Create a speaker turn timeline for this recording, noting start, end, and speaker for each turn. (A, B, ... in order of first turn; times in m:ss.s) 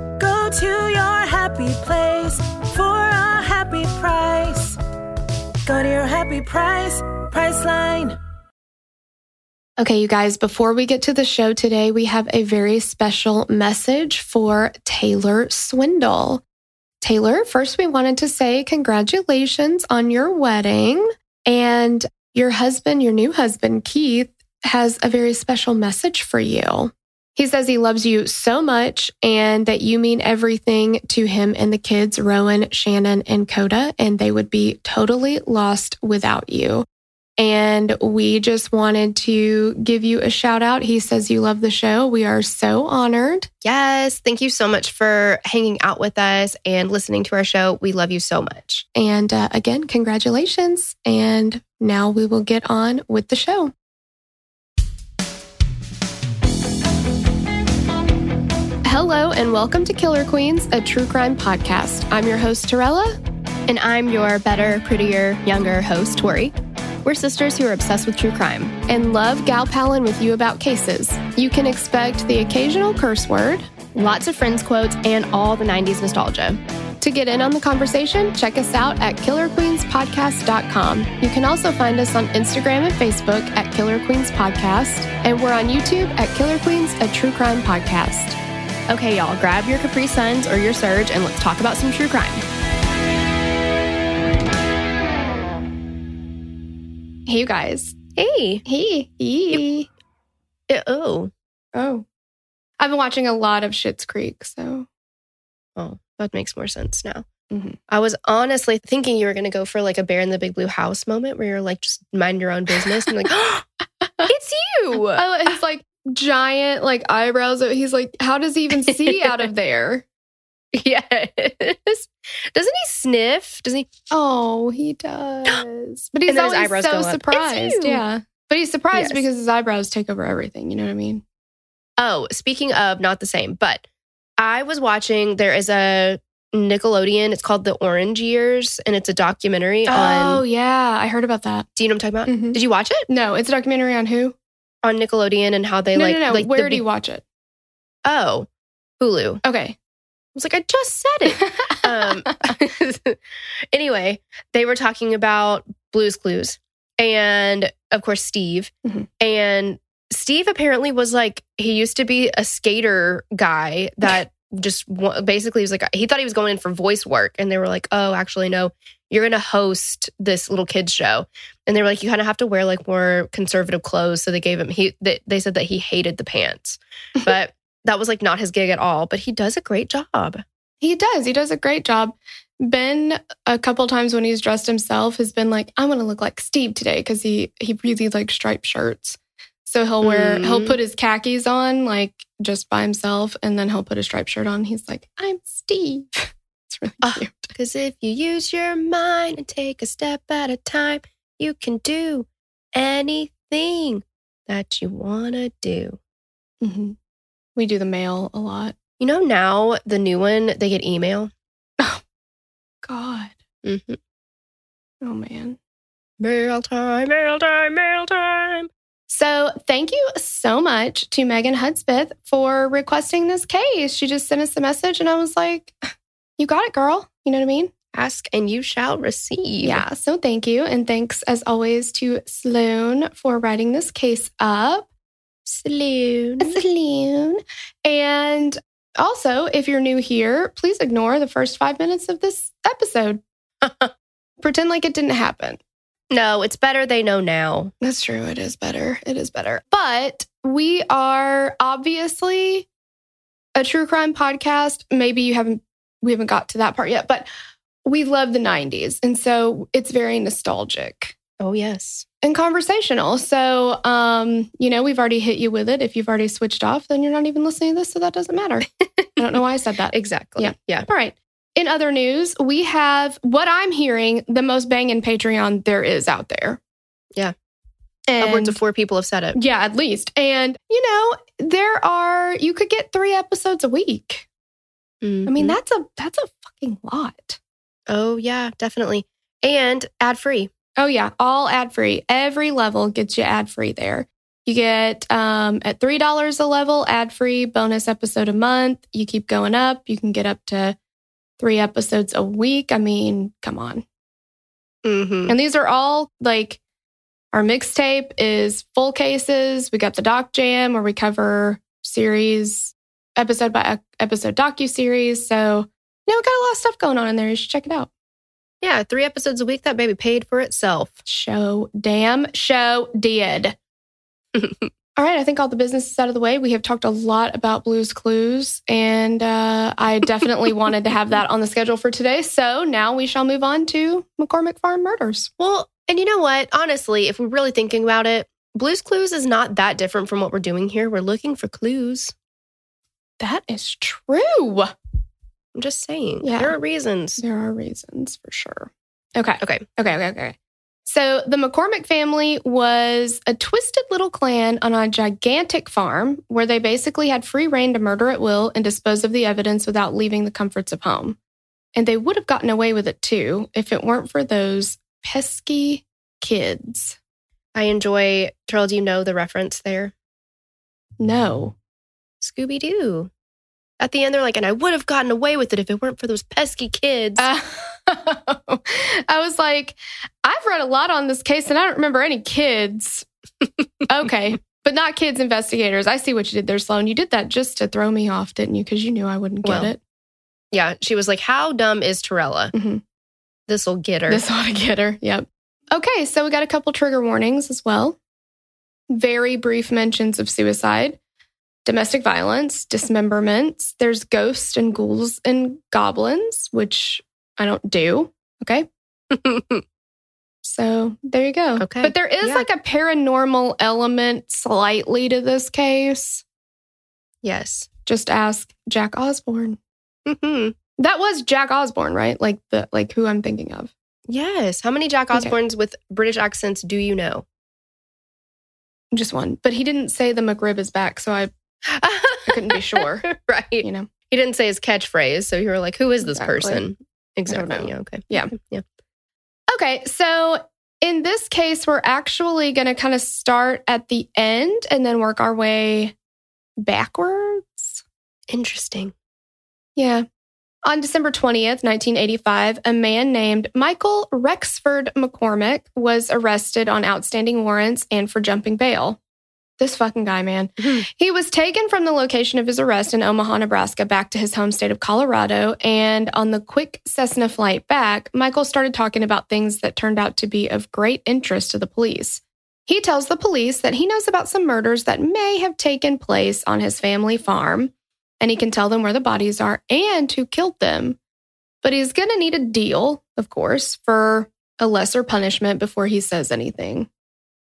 0:00.2-0:04.8 A
0:05.6-0:08.2 A
0:09.8-0:16.4 B
0:17.0-0:36.8 B
0:37.4-0:43.5 B
0:43.6-0:48.8 C
0:48.9-0:53.7 B
0:58.8-1:03.2 B
1:03.7-1:08.7 C
1:08.9-1:13.7 B
1:13.9-1:16.6 C
1:17.0-1:28.4 B
1:28.9-1:32.4 C
1:37.3-1:38.0 B
1:38.2-1:38.6 C
1:38.6-1:39.9 B
1:40.7-1:41.3 C
1:41.7-1:42.0 B
1:42.8-1:44.9 B
1:45.8-1:47.2 C
1:47.5-1:47.8 B
1:47.9-1:53.6 C
1:54.0-1:54.3 B
1:54.3-1:55.3 C
1:55.0-2:00.0 B
1:58.9-1:59.4 C
2:00.7-2:03.9 C
2:04.1-2:11.2 B
2:06.2-2:08.0 C
2:08.9-2:09.2 C
2:12.0-2:13.8 C
2:14.4-2:20.4 C
2:19.9-2:21.7 B
2:21.8-2:23.1 C
2:22.3-2:24.4 B
2:24.8-2:26.8 C
2:25.9-2:27.2 B
2:28.0-2:28.5 C
2:29.0-2:29.4 C
2:29.4-2:29.8 B
2:30.3-2:33.2 C
2:31.4-2:32.4 B
2:33.7-3:00.4 C
3:00.8-3:17.5 B
3:10.0-3:10.8 C
3:17.0-3:26.0 C
3:26.6-3:27.0 B
3:27.6-3:28.7 B
3:29.0-3:31.3 C
3:32.8-3:33.4 B
3:33.6-3:34.0 C
3:35.0-3:35.6 B
3:36.2-3:38.7 C
3:39.1-3:47.7 B
3:47.9-3:49.8 C
3:49.6-3:54.9 B
3:55.4-3:56.6 C
3:56.4-4:03.2 B
4:03.6-4:03.9 C
4:04.4-4:05.6 B
4:06.1-4:07.7 C
4:07.8-4:12.7 B
4:13.6-4:17.3 B
4:17.8-4:21.1 B
4:21.4-4:22.0 C
4:22.2-4:36.6 B
4:28.8-4:29.1 C
4:29.9-4:30.8 C
4:38.1-4:38.6 B
4:38.2-4:39.4 C
4:39.3-4:44.2 B
4:45.0-4:45.6 C
4:45.2-4:47.4 B
4:47.9-4:50.5 C
4:50.8-5:00.8 B
5:01.4-5:03.8 B
5:04.8-5:05.3 C
5:05.3-5:06.6 B
5:07.3-5:17.9 B
5:18.6-5:21.0 C
5:21.0-5:23.6 B
5:24.3-5:24.7 C
5:25.0-5:35.3 B
5:35.4-5:42.1 C
5:43.2-5:44.7 B
5:45.6-5:47.2 C
5:46.2-5:46.6 B
5:47.2-6:01.2 B
5:49.4-5:49.6 C
6:01.7-6:07.0 B
6:07.5-6:09.9 C
6:11.0-6:11.5 B
6:12.2-6:13.1 C
6:13.8-6:17.3 C
6:17.2-6:23.1 B
6:23.9-6:29.8 B
6:29.4-6:29.7 C
6:30.5-6:32.5 C
6:32.5-6:32.8 B
6:33.5-6:34.2 C
6:34.1-6:38.0 B
6:38.9-6:41.0 B
6:41.6-6:48.7 B
6:49.1-6:49.6 C
6:50.4-6:56.2 B
6:51.6-6:52.5 C
6:57.2-6:57.7 C
6:57.8-6:59.6 B
7:00.0-7:00.6 C
7:00.8-7:03.7 B
7:04.1-7:07.2 C
7:08.9-7:11.3 B
7:11.6-7:18.6 C
7:12.2-7:13.1 B
7:13.6-7:13.9 B
7:16.0-7:16.6 B
7:17.3-7:18.3 B
7:19.5-7:25.9 B
7:26.6-7:27.8 B
7:28.3-7:28.9 C
7:29.8-7:30.0 B
7:30.6-7:39.0 B
7:39.6-8:01.0 B
8:01.6-8:06.9 B